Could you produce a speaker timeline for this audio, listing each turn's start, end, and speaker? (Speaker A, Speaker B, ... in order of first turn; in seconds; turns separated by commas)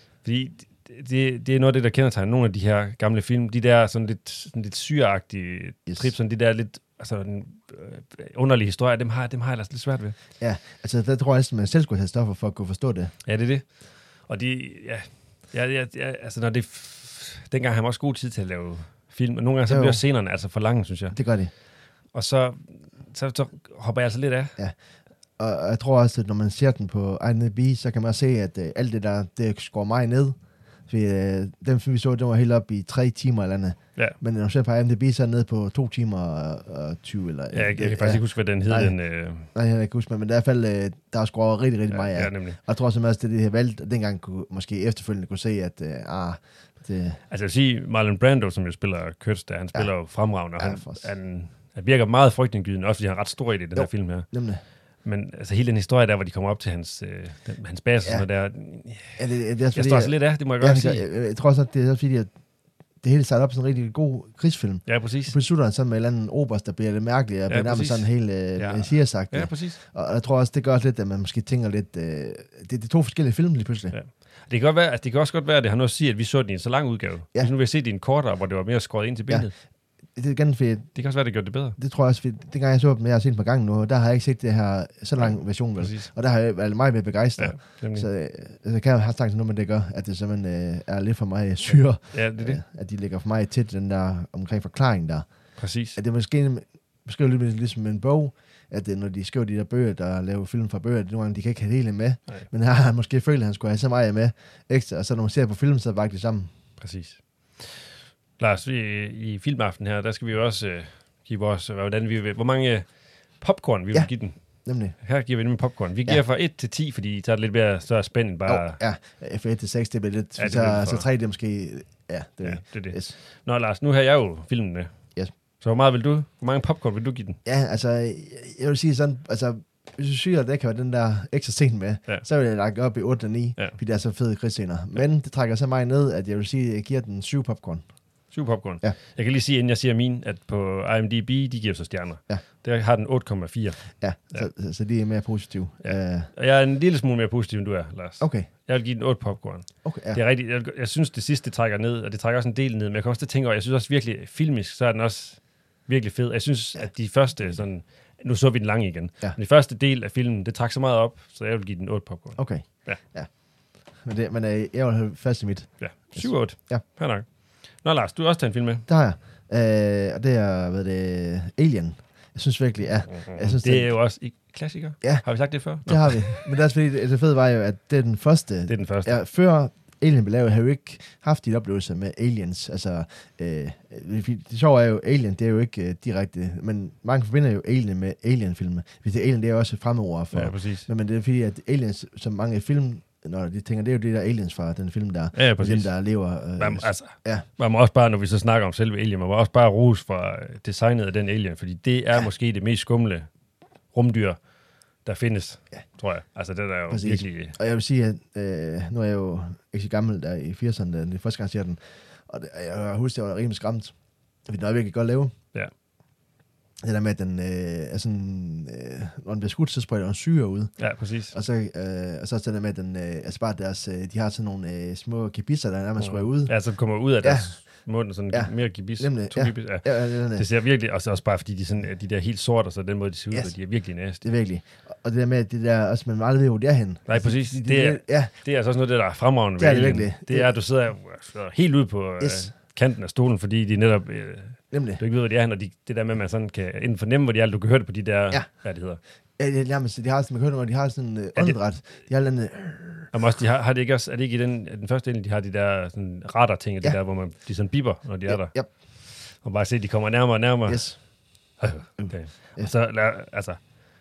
Speaker A: 0.2-10.2, Speaker B: 10.4-13.1, Speaker A: 13.2-21.2, Speaker B: 19.7-20.0, Speaker B: 21.1-21.5, Speaker A: 22.1-24.6, Speaker B: 25.4-47.2, Speaker A: 37.5-39.5, Speaker A: 41.9-42.6, Speaker A: 47.3-54.3, Speaker B: 49.7-51.1, Speaker B: 53.7-54.6, Speaker A: 55.0-59.2, Speaker B: 59.0-62.3, Speaker A: 59.7-61.0, Speaker B: 63.0-73.9, Speaker A: 64.8-65.3, Speaker A: 67.5-69.8, Speaker A: 73.9-79.5, Speaker B: 79.3-79.5, Speaker B: 80.1-81.0, Speaker A: 80.9-81.8, Speaker B: 81.8-106.5, Speaker A: 85.2-86.1, Speaker A: 87.4-88.1, Speaker A: 92.1-92.6, Speaker A: 95.6-96.0, Speaker A: 106.8-118.8, Speaker B: 113.9-115.0, Speaker B: 118.5-123.1, Speaker A: 120.4-121.1, Speaker A: 122.4-127.4, Speaker B: 127.4-138.9, Speaker A: 138.3-144.5, Speaker B: 144.0-146.3, Speaker A: 145.8-163.0, Speaker B: 148.2-148.5, Speaker B: 149.8-150.2, Speaker B: 162.3-166.8, Speaker A: 165.8-168.9, Speaker B: 168.9-174.0, Speaker A: 173.1-176.5, Speaker B: 175.0-197.4, Speaker A: 178.7-179.1, Speaker A: 190.3-190.9, Speaker A: 195.3-203.3, Speaker A: 203.9-204.4, Speaker A: 204.9-207.6, Speaker B: 206.9-215.3, Speaker B: 216.8-226.7, Speaker A: 220.8-221.3, Speaker A: 226.0-234.2, Speaker B: 227.2-230.4, Speaker B: 233.3-238.3, Speaker A: 237.1-249.0, Speaker B: 239.6-240.5, Speaker B: 242.2-242.5, Speaker B: 244.7-245.0, Speaker B: 248.3-248.6, Speaker B: 249.4-253.1, Speaker A: 253.1-263.8, Speaker B: 258.3-258.7, Speaker B: 260.7-262.7